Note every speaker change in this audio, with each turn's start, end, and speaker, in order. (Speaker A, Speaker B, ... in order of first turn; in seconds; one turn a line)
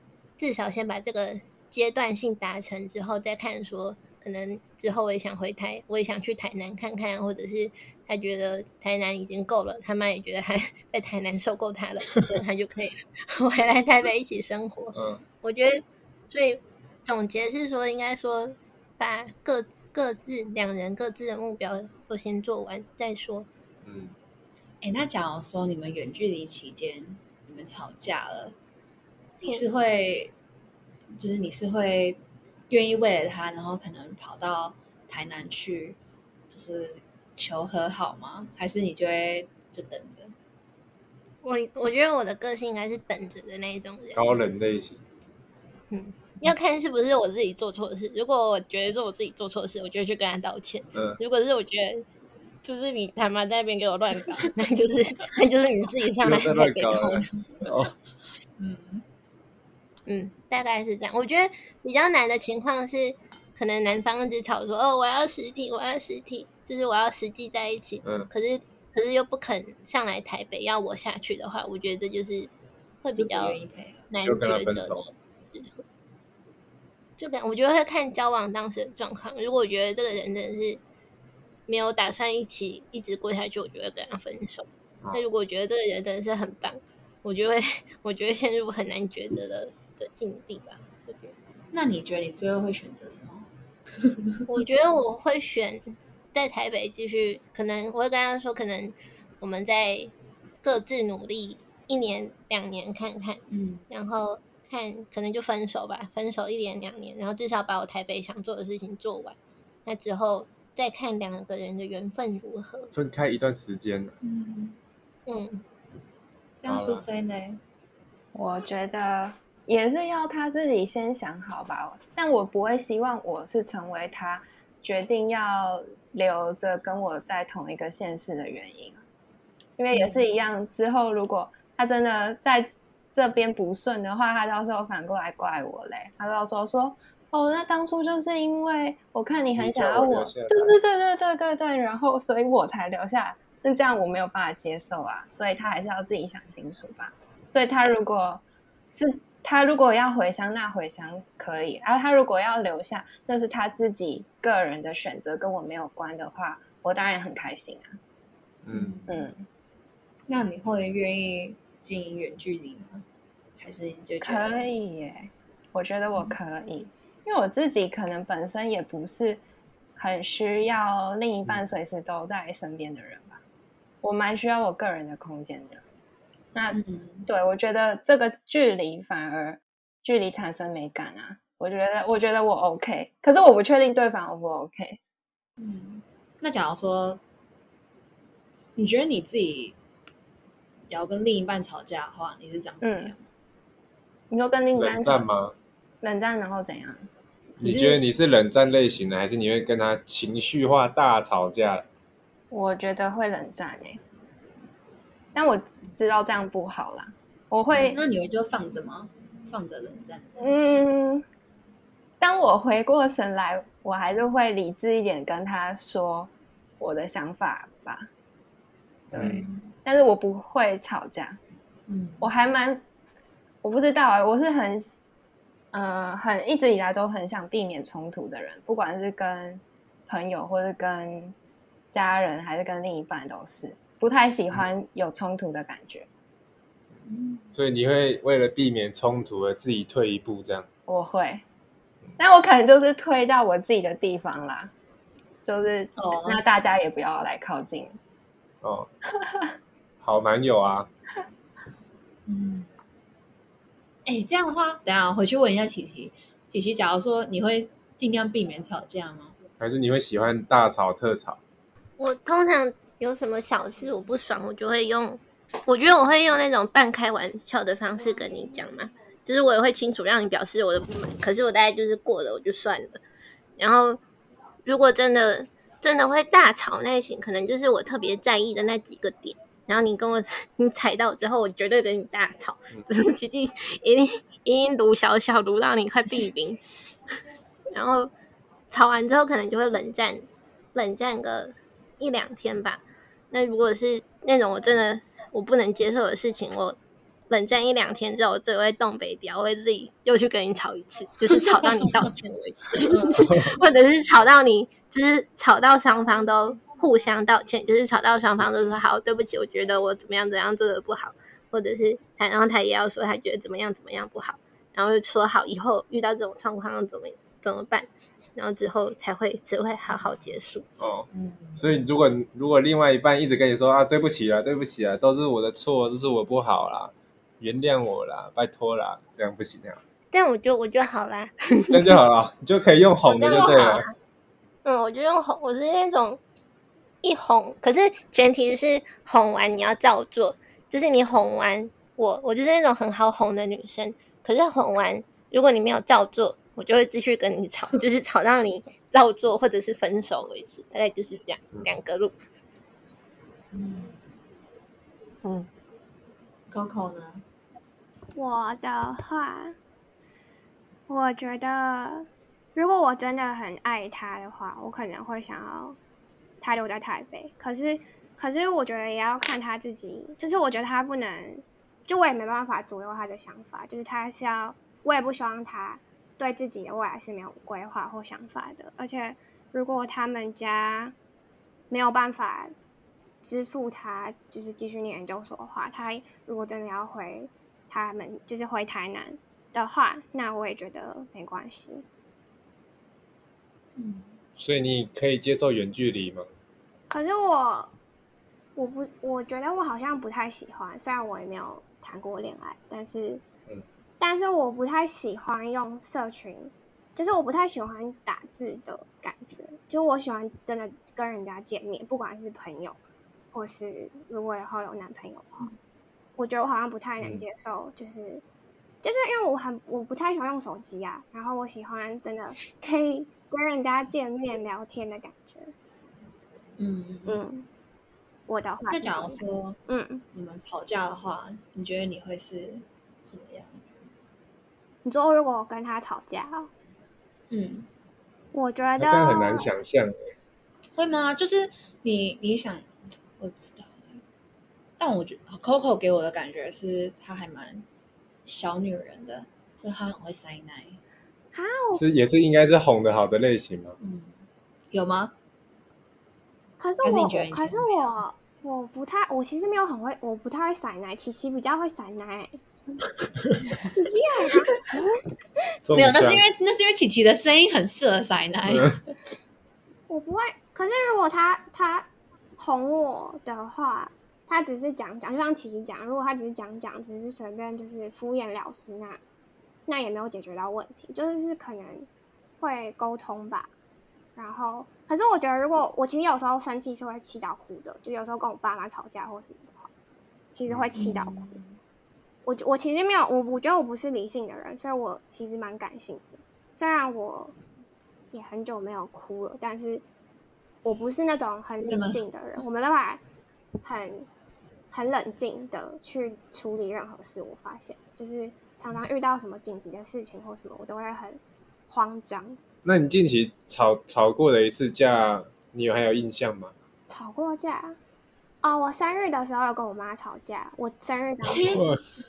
Speaker A: 0.4-23.5
Speaker B: 14.9-15.2
Speaker B: 23.9-24.1
Speaker C: 24.8-28.5
Speaker C: 29.4-30.3
Speaker C: 31.1-36.0
Speaker C: 36.5-40.3
Speaker A: 41.4-44.3
Speaker B: 44.1-45.0
Speaker A: 45.9-52.0
Speaker A: 52.6-57.2
Speaker B: 56.2-57.9
Speaker C: 58.6-59.0
Speaker A: 60.1-72.5
Speaker B: 68.0-68.3
Speaker A: 73.0-73.6
Speaker C: 73.2-74.1
Speaker A: 74.1-75.8
Speaker B: 74.2-75.0
Speaker A: 77.2-80.8
Speaker A: 81.7-91.3
Speaker C: 91.7-93.5
Speaker C: 94.0-94.4
Speaker A: 94.5-100.1
Speaker A: 100.6-112.9
Speaker C: 103.5-103.8
Speaker B: 112.9-114.2
Speaker C: 114.2-114.8
Speaker A: 115.2-115.6
Speaker C: 116.6-117.6
Speaker B: 116.7-117.0
Speaker D: 118.3-129.0
Speaker D: 129.8-158.0
Speaker C: 129.9-130.2
Speaker B: 139.6-140.8
Speaker B: 158.6-158.9
Speaker C: 158.7-159.3
Speaker D: 159.1-159.4
Speaker C: 160.3-163.0
Speaker C: 163.6-164.7
Speaker D: 164.2-169.4
Speaker D: 170.0-173.4
Speaker D: 174.0-175.8
Speaker D: 176.5-185.0
Speaker C: 176.7-177.3
Speaker C: 185.6-187.2
Speaker C: 188.8-189.8
Speaker C: 190.9-193.3
Speaker D: 192.8-193.1
Speaker D: 194.3-195.3
Speaker B: 194.7-195.5
Speaker D: 196.0-197.1
Speaker B: 197.6-201.8
Speaker C: 197.6-198.0
Speaker D: 202.5-204.0
Speaker D: 205.3-208.0
Speaker C: 207.9-210.5
Speaker D: 210.4-211.2
Speaker D: 212.2-218.1
Speaker C: 219.1-219.7
Speaker D: 219.1-221.4
Speaker C: 221.9-222.3
Speaker D: 222.2-222.8
Speaker D: 223.6-224.9
Speaker D: 225.7-231.3
Speaker D: 231.9-236.1
Speaker C: 237.0-237.5
Speaker B: 237.5-240.7
Speaker D: 240.9-241.4
Speaker D: 242.2-244.7
Speaker D: 245.4-248.0
Speaker C: 245.9-246.4
Speaker B: 248.6-248.9
Speaker D: 249.2-249.5
Speaker B: 250.0-250.9
Speaker C: 252.2-252.7
Speaker C: 254.1-259.4
Speaker B: 259.6-261.4
Speaker A: 262.0-273.0
Speaker A: 273.6-274.0
Speaker A: 274.6-286.6
Speaker A: 287.7-288.1
Speaker A: 288.7-296.8
Speaker A: 297.3-320.7
Speaker C: 302.9-303.2
Speaker B: 303.2-303.5
Speaker B: 320.8-329.8
Speaker C: 321.1-321.6
Speaker A: 330.1-332.0
Speaker B: 331.7-333.9
Speaker A: 333.1-333.9
Speaker A: 334.6-336.2
Speaker A: 337.0-352.1
Speaker C: 353.5-353.9
Speaker A: 355.2-355.5
Speaker C: 356.5-357.2
Speaker E: 358.1-359.6
Speaker E: 360.9-365.8
Speaker E: 366.4-380.9
Speaker E: 381.7-382.5
Speaker E: 383.2-391.8
Speaker C: 393.8-394.1
Speaker B: 394.4-396.2
Speaker E: 396.9-397.7
Speaker E: 398.5-403.2
Speaker E: 404.0-412.8
Speaker E: 413.3-415.5
Speaker E: 416.2-418.2
Speaker E: 418.8-425.5
Speaker C: 426.6-427.2
Speaker E: 427.1-427.5
Speaker E: 428.3-430.0
Speaker C: 428.7-429.6
Speaker C: 430.1-433.8
Speaker E: 434.8-436.5
Speaker C: 437.3-437.7
Speaker E: 438.3-439.5
Speaker B: 438.8-439.9
Speaker C: 440.7-444.0
Speaker C: 444.8-447.6
Speaker C: 448.2-450.8
Speaker E: 451.3-451.8
Speaker B: 451.7-453.8
Speaker C: 453.8-454.1
Speaker C: 454.7-455.1
Speaker E: 456.6-462.4
Speaker C: 456.8-458.0
Speaker E: 463.7-464.8
Speaker B: 465.7-466.2
Speaker C: 465.7-468.8
Speaker B: 468.5-468.7
Speaker E: 469.9-479.0
Speaker E: 479.7-481.9
Speaker E: 482.4-483.5
Speaker E: 484.1-489.7
Speaker E: 490.3-491.3
Speaker C: 490.7-491.6
Speaker E: 492.2-497.3
Speaker E: 498.1-499.8
Speaker E: 500.6-503.0
Speaker C: 501.6-502.0
Speaker E: 503.6-504.1
Speaker E: 504.7-512.4
Speaker B: 512.6-516.5
Speaker E: 516.9-517.8
Speaker E: 518.4-521.6
Speaker C: 521.3-521.6
Speaker B: 521.5-521.8